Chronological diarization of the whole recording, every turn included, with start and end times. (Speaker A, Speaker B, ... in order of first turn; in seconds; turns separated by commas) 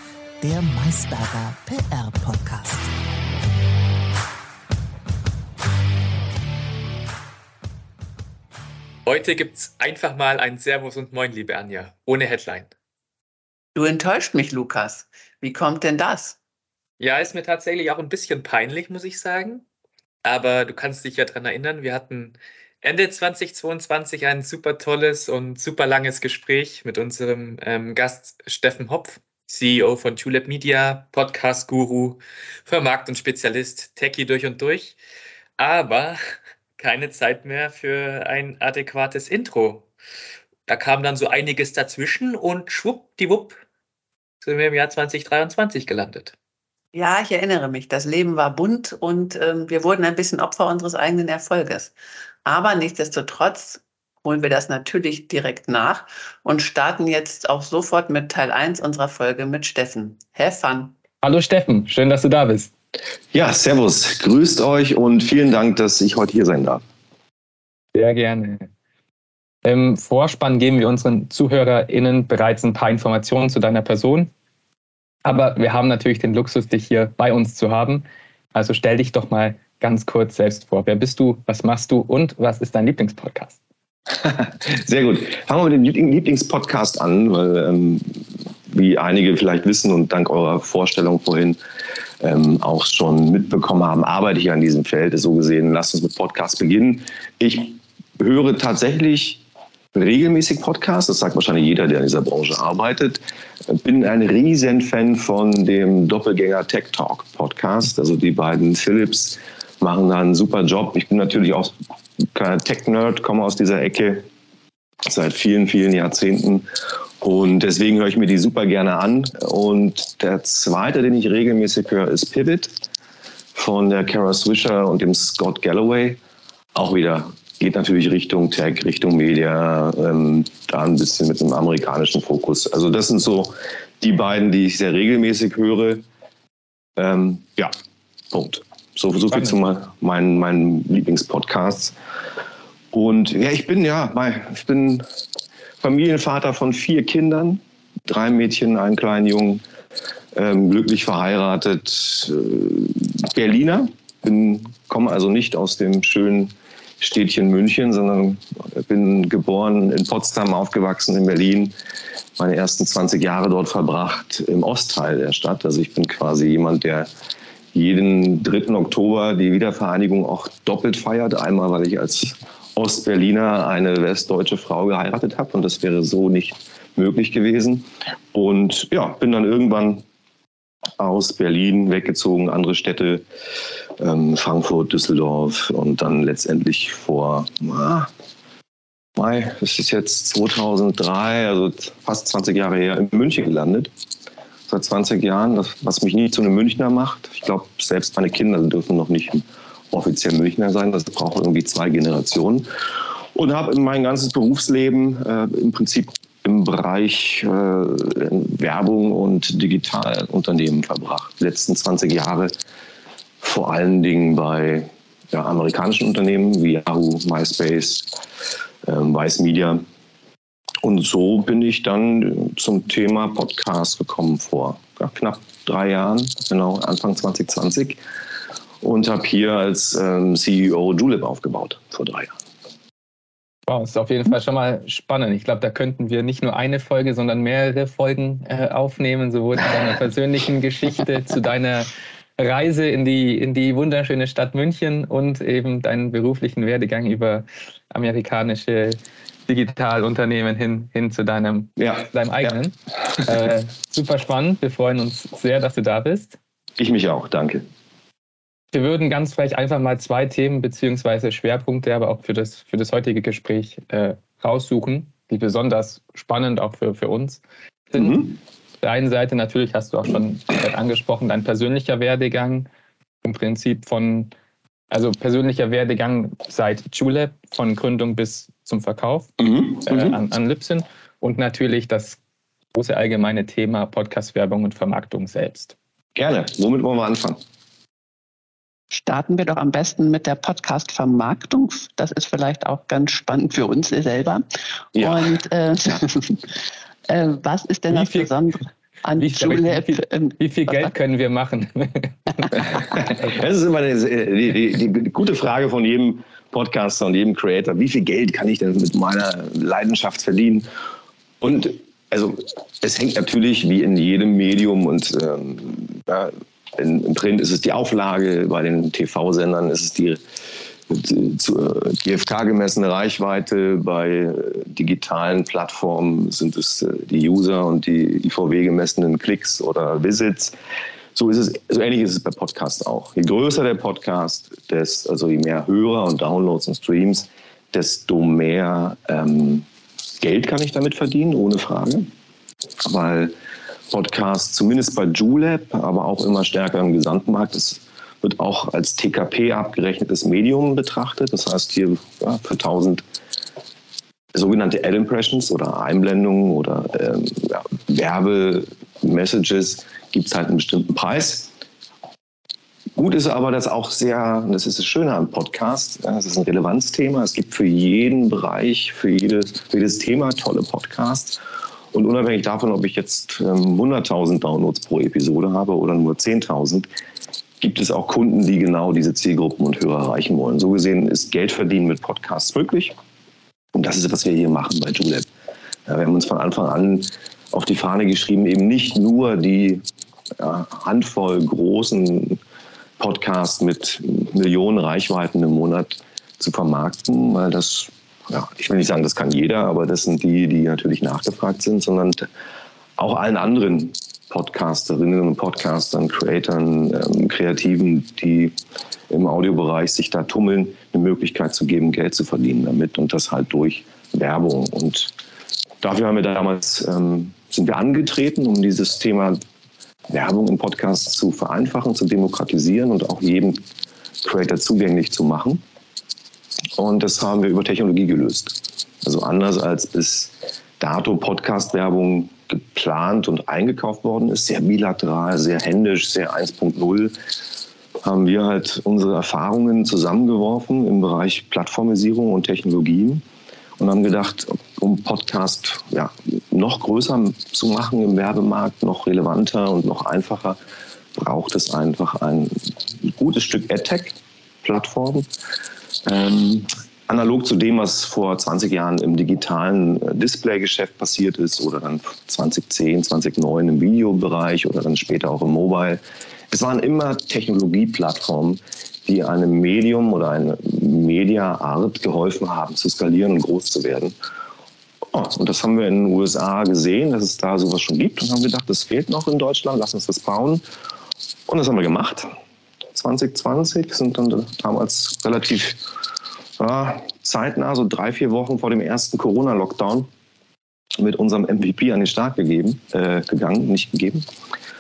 Speaker A: 0.4-2.9, Speaker B: 9.0-12.7, Speaker C: 13.7-16.4, Speaker B: 17.0-19.6, Speaker B: 20.2-35.0, Speaker B: 35.6-36.2, Speaker B: 36.8-39.9, Speaker B: 40.7-43.6, Speaker B: 44.4-46.3, Speaker C: 46.9-51.9, Speaker C: 52.4-60.9, Speaker D: 61.2-62.7, Speaker E: 63.3-66.8, Speaker D: 67.9-68.7, Speaker D: 69.6-74.3, Speaker D: 75.2-83.6, Speaker E: 84.1-88.1, Speaker E: 88.7-91.6, Speaker E: 92.2-99.4, Speaker E: 99.9-114.2, Speaker E: 115.0-116.7, Speaker E: 117.2-122.8, Speaker E: 123.5-126.2, Speaker E: 126.7-136.0, Speaker E: 137.0-137.7, Speaker E: 138.3-141.9, Speaker E: 142.9-145.0, Speaker E: 145.8-149.6, Speaker E: 150.3-161.7, Speaker E: 162.4-167.1, Speaker E: 167.7-180.0, Speaker E: 181.0-183.2, Speaker E: 184.0-188.1, Speaker E: 189.2-193.9, Speaker E: 194.7-202.7, Speaker E: 203.3-212.5, Speaker E: 213.4-218.1, Speaker E: 218.8-219.8, Speaker E: 220.8-228.0, Speaker E: 228.8-232.3, Speaker D: 233.7-256.4, Speaker E: 251.8-252.5, Speaker E: 256.8-257.6, Speaker D: 258.7-272.7, Speaker E: 267.9-268.3, Speaker D: 273.2-274.3, Speaker D: 274.9-279.3, Speaker E: 279.4-280.2, Speaker D: 279.8-282.2, Speaker D: 282.7-285.7, Speaker E: 286.1-287.4, Speaker C: 288.9-294.4, Speaker C: 294.9-296.4, Speaker E: 294.9-295.3, Speaker C: 297.1-300.9, Speaker D: 297.9-298.3, Speaker D: 299.1-302.7, Speaker E: 302.9-310.7, Speaker E: 311.4-320.2, Speaker E: 320.9-330.5, Speaker E: 331.1-339.6, Speaker E: 340.2-342.1, Speaker E: 342.8-343.3, Speaker E: 343.9-353.0, Speaker E: 354.3-361.5, Speaker E: 362.9-371.4, Speaker E: 371.9-376.9, Speaker E: 377.6-382.9, Speaker E: 383.7-385.3, Speaker E: 385.9-389.8, Speaker E: 390.4-392.4, Speaker E: 393.0-402.3, Speaker E: 403.0-408.5, Speaker E: 409.1-415.1, Speaker E: 415.8-419.4, Speaker E: 420.1-423.6, Speaker E: 424.2-425.6, Speaker E: 426.8-437.1, Speaker E: 438.0-443.2, Speaker E: 443.8-450.6, Speaker E: 451.1-455.3, Speaker E: 456.0-474.1, Speaker E: 475.1-480.6, Speaker E: 481.5-482.3, Speaker E: 482.9-485.8, Speaker E: 486.6-490.1, Speaker E: 491.0-494.2